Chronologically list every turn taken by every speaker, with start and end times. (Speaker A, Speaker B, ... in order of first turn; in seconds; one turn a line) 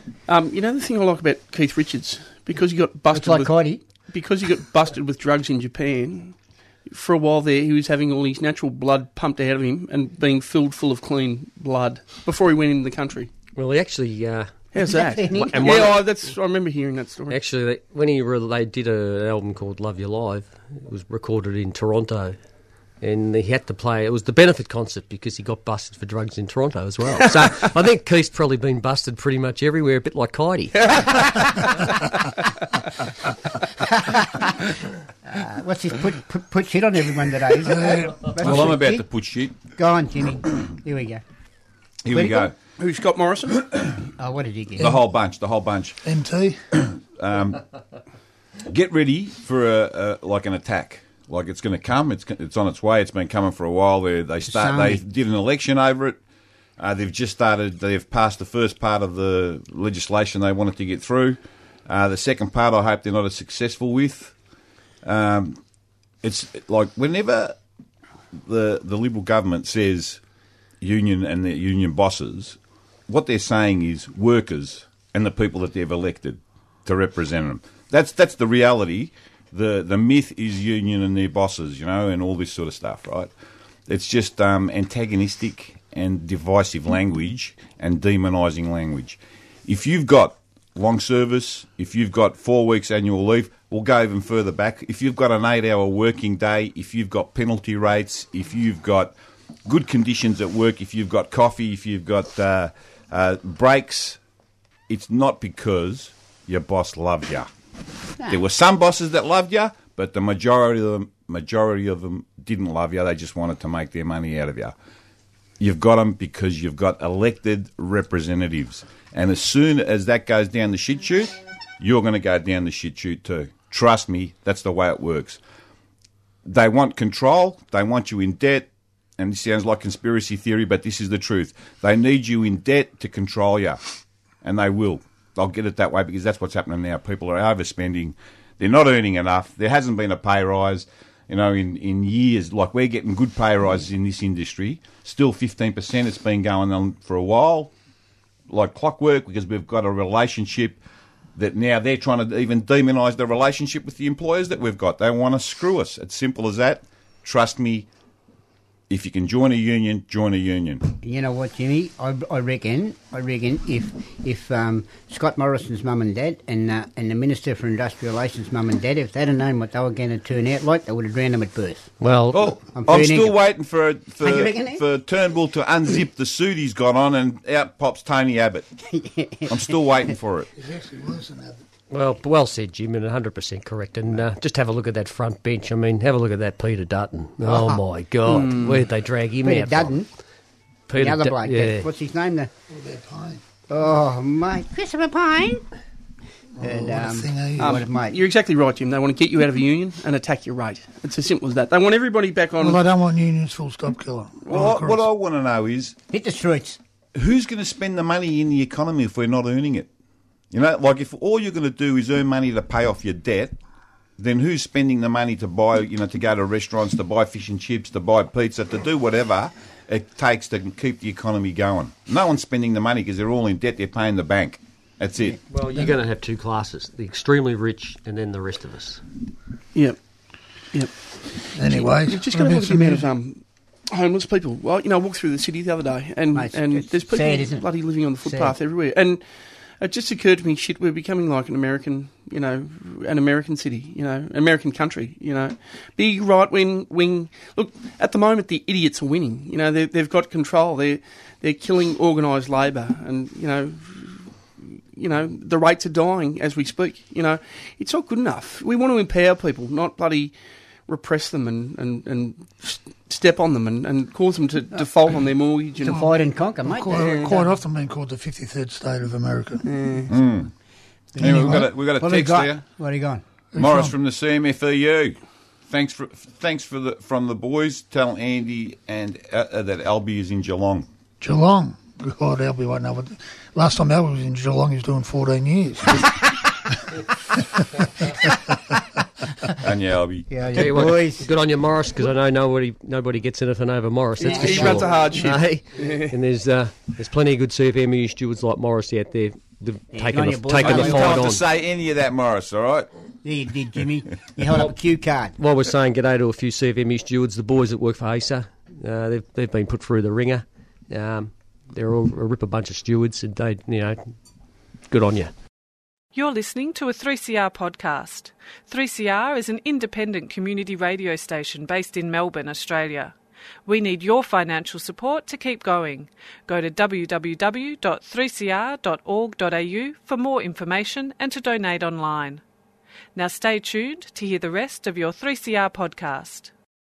Speaker A: 0.3-3.5
Speaker B: 3.1-3.8
Speaker A: 4.1-6.3
Speaker A: 6.8-13.3
Speaker C: 13.5-14.6
Speaker A: 14.7-17.4
Speaker B: 14.8-16.0
Speaker C: 15.4-16.0
Speaker C: 17.3-22.4
Speaker C: 23.0-31.2
Speaker B: 30.9-31.5
Speaker B: 33.7-34.7
Speaker B: 35.2-39.0
Speaker D: 37.6-38.7
Speaker E: 38.4-39.5
Speaker B: 39.7-41.2
Speaker E: 42.0-42.5
Speaker B: 42.1-42.5
Speaker A: 42.8-43.6
Speaker B: 44.2-45.0
Speaker E: 44.8-46.0
Speaker D: 46.0-46.6
Speaker E: 46.8-47.6
Speaker E: 48.6-56.2
Speaker B: 54.5-55.0
Speaker E: 56.8-64.3
Speaker E: 65.0-65.6
Speaker E: 66.2-67.6
Speaker E: 68.4-70.2
Speaker E: 70.8-83.3
Speaker E: 83.9-99.1
Speaker E: 99.7-104.2
Speaker E: 104.9-107.5
Speaker E: 108.2-114.7
Speaker E: 115.6-125.4
Speaker E: 126.4-133.8
Speaker E: 134.4-147.7
Speaker E: 148.5-150.8
Speaker E: 151.3-157.9
Speaker E: 158.9-160.8
Speaker B: 161.0-171.9
Speaker C: 172.0-172.4
Speaker E: 172.3-178.7
Speaker B: 172.7-173.3
Speaker B: 174.2-174.8
Speaker B: 178.9-179.7
Speaker E: 179.5-180.5
Speaker D: 180.6-181.6
Speaker C: 181.9-190.0
Speaker B: 187.4-187.8
Speaker A: 188.3-188.8
Speaker B: 189.4-190.1
Speaker C: 190.9-191.9
Speaker B: 191.0-192.5
Speaker D: 192.7-193.4
Speaker B: 193.7-195.6
Speaker D: 196.6-197.8
Speaker B: 196.6-198.2
Speaker A: 197.6-202.8
Speaker D: 202.6-205.0
Speaker E: 204.5-205.9
Speaker B: 206.1-206.8
Speaker E: 207.1-209.9
Speaker E: 210.5-213.6
Speaker E: 214.2-225.4
Speaker C: 225.5-229.0
Speaker D: 231.5-233.1
Speaker A: 231.5-239.2
Speaker B: 236.3-237.7
Speaker B: 238.2-238.5
Speaker A: 239.8-260.3
Speaker A: 260.9-266.1
Speaker B: 265.8-267.4
Speaker D: 266.6-269.6
Speaker A: 267.0-267.3
Speaker A: 269.6-270.1
Speaker E: 270.1-270.5
Speaker D: 271.1-271.7
Speaker E: 271.2-272.6
Speaker B: 271.2-273.2
Speaker D: 273.5-273.9
Speaker E: 273.6-275.1
Speaker E: 275.7-280.9
Speaker D: 281.2-286.2
Speaker E: 289.6-290.6
Speaker B: 290.3-291.3
Speaker C: 290.5-301.4
Speaker A: 294.2-296.1
Speaker B: 294.2-295.1
Speaker B: 299.9-301.2
Speaker E: 300.6-302.9
Speaker B: 303.2-305.4
Speaker C: 305.4-314.0
Speaker C: 314.9-315.3
Speaker F: 316.1-323.1
Speaker F: 323.6-332.4
Speaker F: 333.1-336.5